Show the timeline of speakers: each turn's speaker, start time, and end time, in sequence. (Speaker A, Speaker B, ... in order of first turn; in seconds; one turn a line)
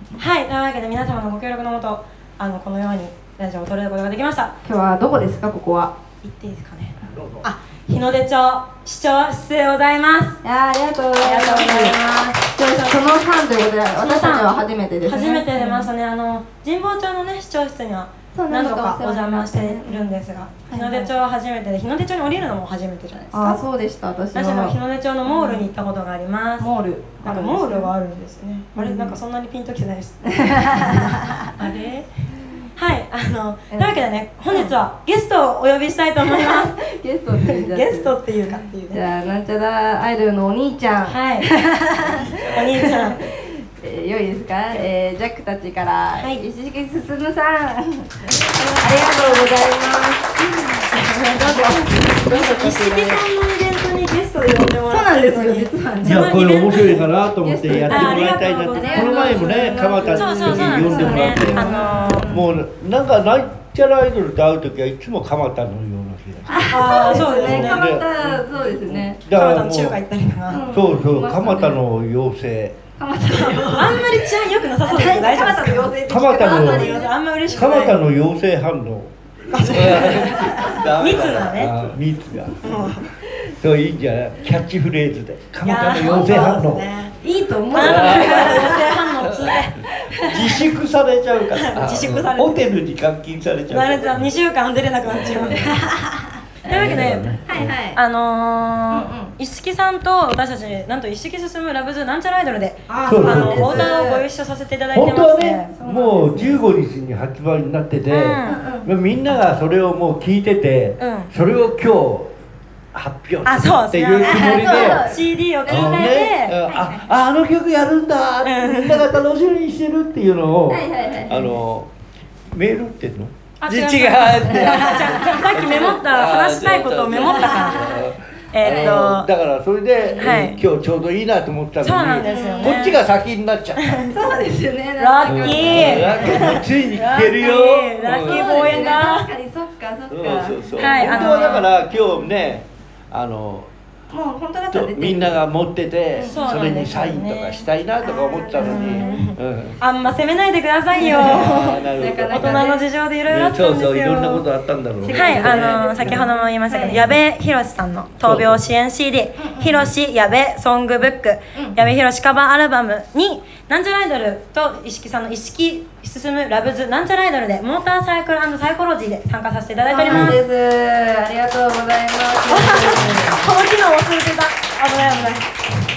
Speaker A: 0.2-4.5
Speaker B: 4.6-5.9
Speaker A: 6.2-10.4
Speaker C: 7.2-7.4
Speaker B: 10.4-15.9
Speaker A: 11.2-12.5
Speaker A: 14.0-23.6
Speaker B: 18.3-21.1
Speaker B: 23.1-25.7
Speaker A: 24.3-36.8
Speaker B: 26.6-27.9
Speaker B: 28.8-29.2
Speaker B: 30.4-31.5
Speaker B: 33.7-34.7
Speaker B: 36.2-53.3
Speaker A: 37.4-39.0
Speaker A: 41.1-41.5
Speaker C: 42.1-42.7
Speaker A: 42.3-43.2
Speaker A: 46.2-46.5
Speaker A: 48.3-49.5
Speaker A: 50.9-57.1
Speaker B: 54.9-56.4
Speaker C: 56.0-70.0
Speaker B: 57.4-62.5
Speaker A: 57.9-62.3
Speaker B: 66.5-69.2
Speaker A: 66.7-67.9
Speaker A: 69.3-70.7
Speaker B: 70.5-71.8
Speaker C: 70.7-72.8
Speaker B: 73.0-77.1
Speaker A: 73.7-78.0
Speaker C: 76.1-83.0
Speaker A: 79.5-81.7
Speaker B: 79.8-80.8
Speaker A: 82.6-83.1
Speaker C: 83.5-86.9
Speaker A: 85.6-87.2
Speaker B: 87.2-89.1
Speaker A: 87.7-90.6
Speaker C: 87.7-89.6
Speaker B: 90.1-90.6
Speaker C: 90.2-94.3
Speaker A: 91.5-92.7
Speaker A: 93.7-95.9
Speaker C: 95.0-95.9
Speaker B: 95.6-96.3
Speaker A: 96.7-105.7
Speaker C: 96.7-97.8
Speaker B: 97.5-98.0
Speaker B: 98.9-99.3
Speaker B: 102.9-104.2
Speaker C: 103.0-103.9
Speaker C: 104.9-112.3
Speaker B: 105.7-106.6
Speaker A: 108.1-108.6
Speaker B: 108.5-108.9
Speaker A: 111.0-111.3
Speaker C: 112.9-115.0
Speaker A: 113.4-116.6
Speaker B: 114.2-117.1
Speaker C: 115.7-121.9
Speaker A: 118.4-119.1
Speaker B: 120.7-121.6
Speaker C: 122.5-134.1
Speaker A: 123.6-128.0
Speaker B: 124.5-125.5
Speaker B: 127.1-128.1
Speaker A: 128.5-129.3
Speaker B: 130.1-130.6
Speaker A: 130.2-130.6
Speaker A: 131.8-133.0
Speaker B: 132.2-133.0
Speaker A: 133.8-134.1
Speaker B: 134.1-136.6
Speaker A: 135.0-139.3
Speaker C: 135.2-138.9
Speaker B: 138.1-142.5
Speaker C: 140.1-143.7
Speaker A: 140.8-141.7
Speaker B: 144.1-145.4
Speaker C: 144.7-149.8
Speaker B: 146.2-146.5
Speaker A: 146.3-154.5
Speaker B: 148.1-149.3
Speaker B: 150.9-152.8
Speaker C: 151.0-152.7
Speaker C: 153.3-156.3
Speaker B: 155.0-157.1
Speaker A: 155.1-170.4
Speaker C: 158.2-158.6
Speaker B: 159.4-159.8
Speaker B: 169.9-173.4
Speaker C: 170.1-170.4
Speaker A: 172.5-175.5
Speaker C: 172.9-173.4
Speaker C: 175.0-175.3